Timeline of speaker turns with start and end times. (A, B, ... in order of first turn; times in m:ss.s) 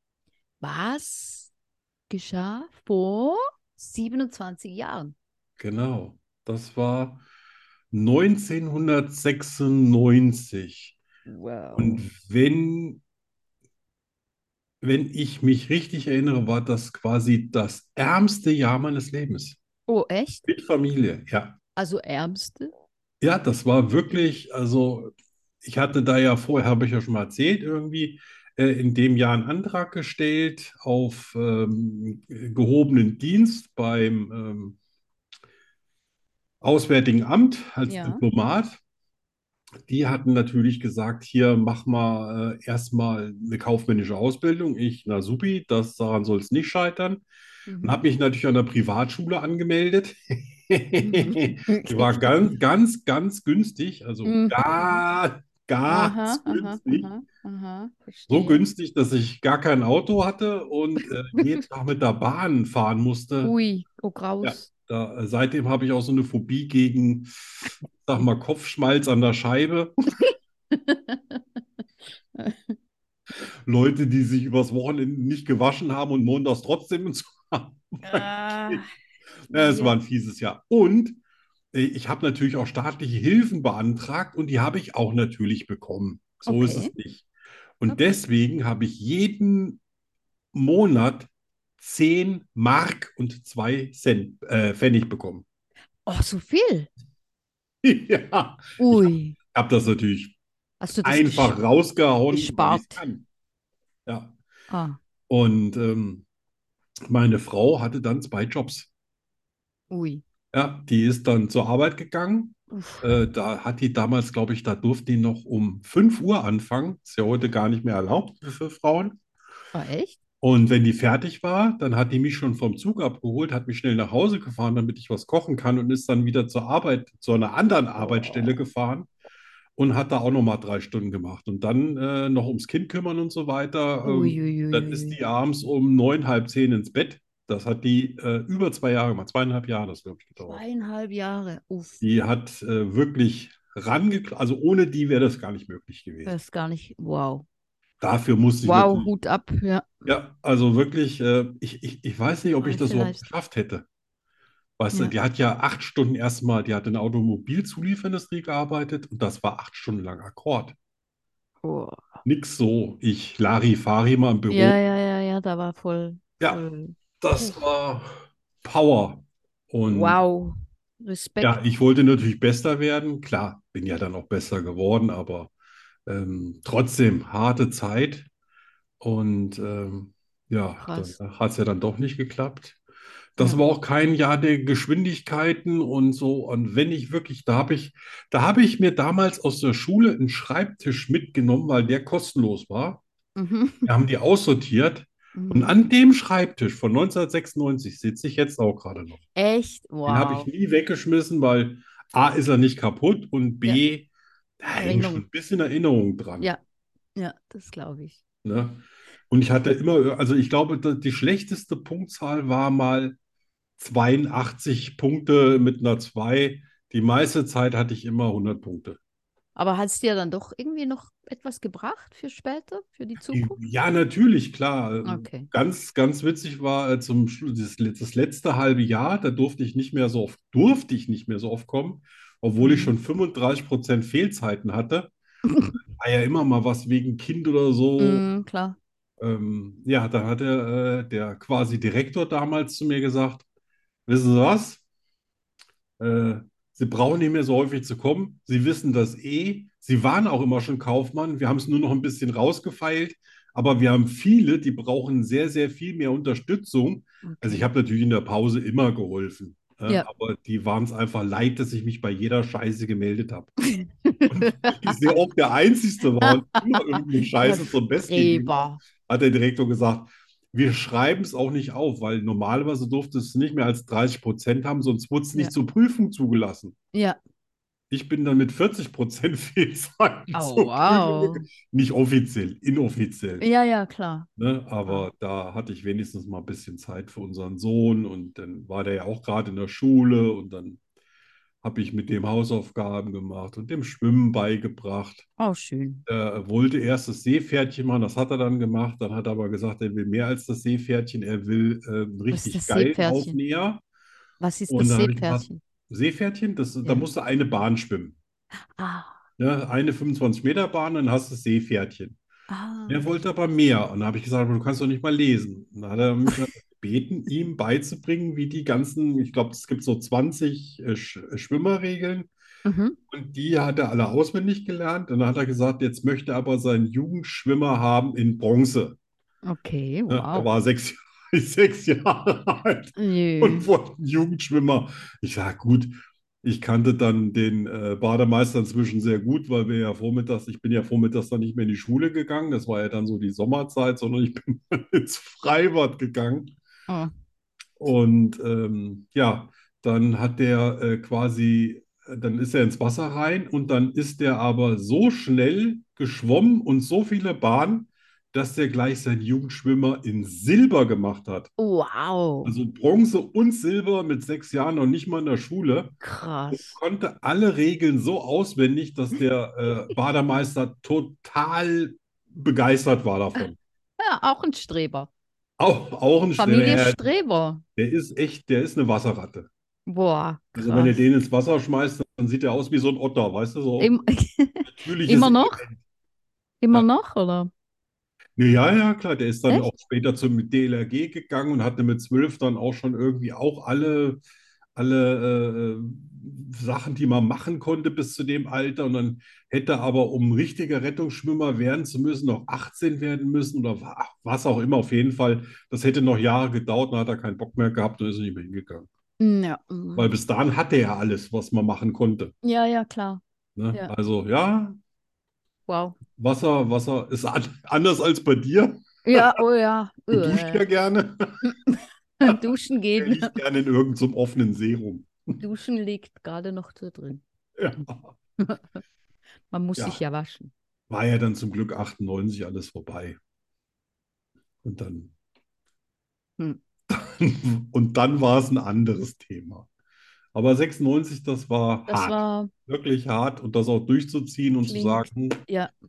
0:00.6-0:01.5 A
0:02.1-0:05.1 A
0:05.6-0:07.2 B
0:07.9-0:11.0 B
0:11.3-0:12.0 A
0:11.8-0:13.0 B
0:14.8-0:19.6 B
0:19.9-0:20.5 A
0:20.4-0:21.6 B
0:21.8-0:22.7 A
0:23.2-0:34.8 B
0:36.6-0:38.8 B
0:37.8-0:38.2 A
0:39.8-0:47.2 B
0:47.7-0:48.0 A
0:47.8-0:57.1 B
0:51.0-0:52.3 A
0:54.2-0:55.0 A
0:55.9-0:58.6 A
0:58.3-1:03.5 B
1:01.3-1:01.6 A
1:03.4-1:04.7 A
1:04.4-1:10.0 B
1:10.7-1:11.4 A
1:12.4-1:12.7 A
1:13.6-1:18.8 B
1:18.0-1:18.9 A
1:19.5-1:21.2 B
1:19.5-1:20.0 A
1:21.7-1:27.2 B
1:26.4-1:26.9 A
1:27.8-1:29.8 B
1:30.5-1:35.4 B
1:36.0-1:36.9 A
1:37.8-1:40.4 B
1:38.8-1:39.4 A
1:40.8-1:41.6 A
1:41.0-1:43.2 B
1:42.3-1:43.0 A
1:44.0-1:44.3 B
1:44.7-1:45.0 A
1:45.3-1:46.2 B
1:47.1-1:48.9 B
1:49.9-1:50.2 A
1:50.5-1:59.2 B
1:52.7-1:53.1 A
1:59.7-2:00.2 A
2:00.4-2:09.1 B
2:08.0-2:08.5 A
2:09.8-2:20.6 B
2:14.0-2:15.2 A
2:20.4-2:22.0 A
2:22.0-2:26.3 B
2:26.2-2:27.4 A
2:28.0-2:29.1 B
2:28.6-2:30.0 A
2:30.0-2:33.8 B
2:32.6-2:33.3 A
2:34.8-2:40.8 B
2:41.6-2:42.2 A
2:42.2-2:44.8 B
2:44.5-2:47.6 A
2:47.2-2:50.2 B
2:49.9-2:51.6 A
2:51.4-2:55.5 B
2:56.0-2:58.3 B
2:59.0-3:02.8 B
3:00.8-3:01.2 A
3:03.4-3:13.0 B
3:03.4-3:03.6 A
3:13.4-3:13.9 A
3:13.8-3:19.2 B
3:15.3-3:15.7 A
3:19.4-3:20.5 A
3:20.0-3:24.1 B
3:24.6-3:26.5 B
3:24.8-3:25.2 A
3:27.2-3:28.2 A
3:28.4-3:33.2 B
3:33.8-3:39.0 B
3:39.5-3:43.6 A
3:43.2-3:55.1 B
3:45.0-3:45.5 A
3:52.6-3:52.9 A
3:55.4-3:55.8 A
3:55.9-3:58.2 B
3:58.0-3:58.8 A
3:59.2-4:03.4 B
4:04.0-4:04.8 B
4:06.0-4:23.5 B
4:17.2-4:17.6 A
4:23.7-4:25.0 A
4:24.3-4:36.7 B
4:26.2-4:28.8 A
4:36.9-4:37.2 A
4:37.9-4:43.4 B
4:40.3-4:41.4 A
4:43.4-4:44.3 A
4:44.4-4:50.8 B
4:51.6-4:55.3 B
4:55.4-4:56.0 A
4:56.1-5:03.8 B
5:02.3-5:03.4 A
5:04.4-5:05.6 A
5:04.7-5:08.2 B
5:08.8-5:09.2 A
5:09.4-5:12.2 B
5:12.5-5:13.0 A
5:12.9-5:22.3 B
5:22.6-5:23.0 A
5:23.1-5:29.0 B
5:29.4-5:30.5 A
5:30.1-5:35.9 B
5:33.0-5:33.6 A
5:36.4-5:46.5 B
5:46.9-5:47.1 A
5:47.8-6:01.5 B
6:01.6-6:02.5 A
6:02.4-6:06.0 B
6:06.0-6:06.8 A
6:06.5-6:13.6 B
6:14.0-6:15.1 A
6:15.6-6:17.0 B
6:16.4-6:17.6 A
6:17.8-6:19.5 B
6:19.9-6:21.0 A
6:20.6-6:23.9 B
6:23.8-6:25.6 A
6:24.8-6:25.8 B
6:26.6-6:27.5 A
6:28.4-6:34.2 B
6:34.7-6:48.9 B
6:49.2-6:50.1 A
6:49.9-6:52.3 B
6:52.4-6:53.2 A
6:53.6-6:54.8 B
6:55.7-6:56.0 A
6:56.2-6:59.4 B
6:59.0-7:00.6 A
7:00.1-7:01.4 B
7:01.4-7:03.4 A
7:03.0-7:05.4 B
7:05.4-7:07.2 A
7:07.6-7:08.1 B
7:08.4-7:08.8 A
7:09.5-7:10.5 A
7:10.9-7:13.2 B
7:14.6-7:15.1 B
7:16.9-7:19.7 B
7:20.3-7:25.4 B
7:21.9-7:22.5 A
7:24.7-7:25.7 A